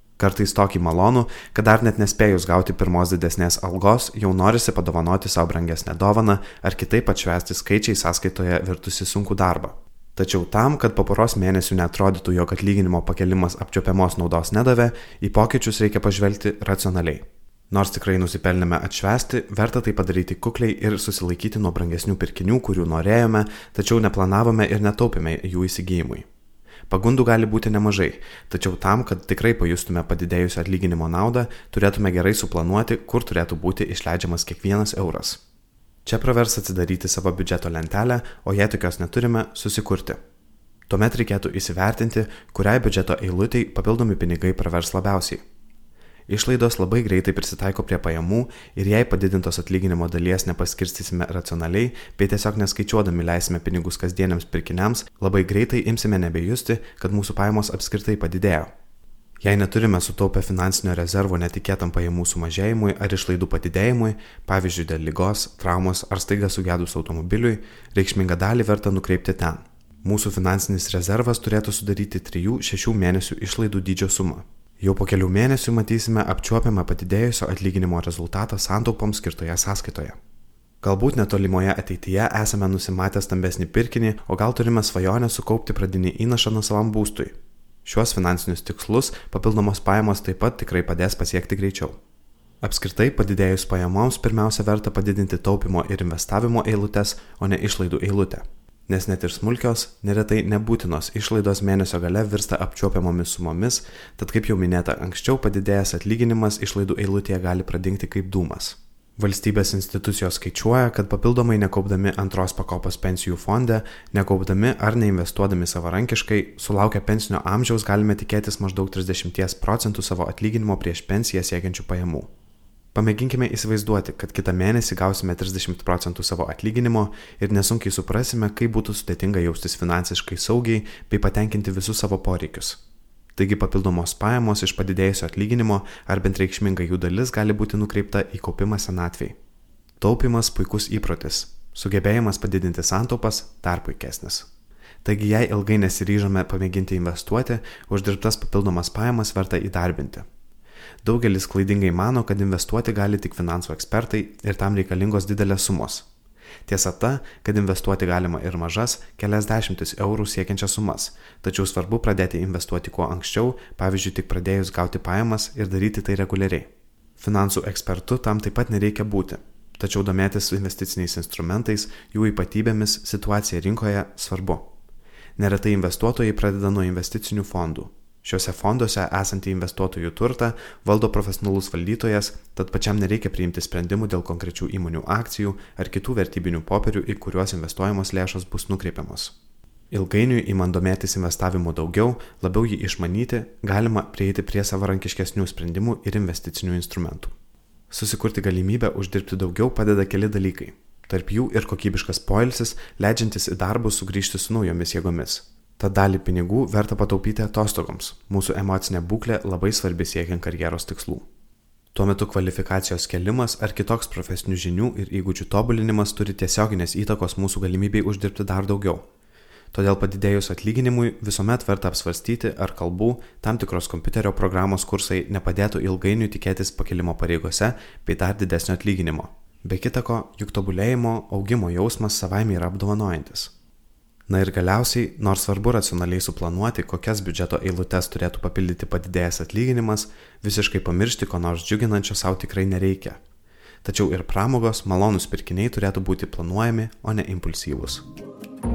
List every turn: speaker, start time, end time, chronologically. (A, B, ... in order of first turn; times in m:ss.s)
0:00.2-0:26.3 A
0:26.9-0:35.4 A
0:36.0-0:40.2 A
0:40.9-0:45.4 A
0:46.3-0:58.7 A
0:59.4-1:20.2 A
1:20.8-1:32.0 A
1:32.6-2:02.3 A
2:02.9-2:12.8 A
2:13.3-2:19.4 A
2:20.0-2:24.5 A
2:25.0-2:30.3 A
2:31.0-2:36.1 A
2:36.6-2:54.7 A
2:55.4-3:09.3 A
3:09.9-3:17.3 A
3:17.9-3:31.2 A
3:31.9-3:39.0 A
3:39.7-3:53.5 A
3:54.3-4:03.2 A
4:03.8-4:08.0 A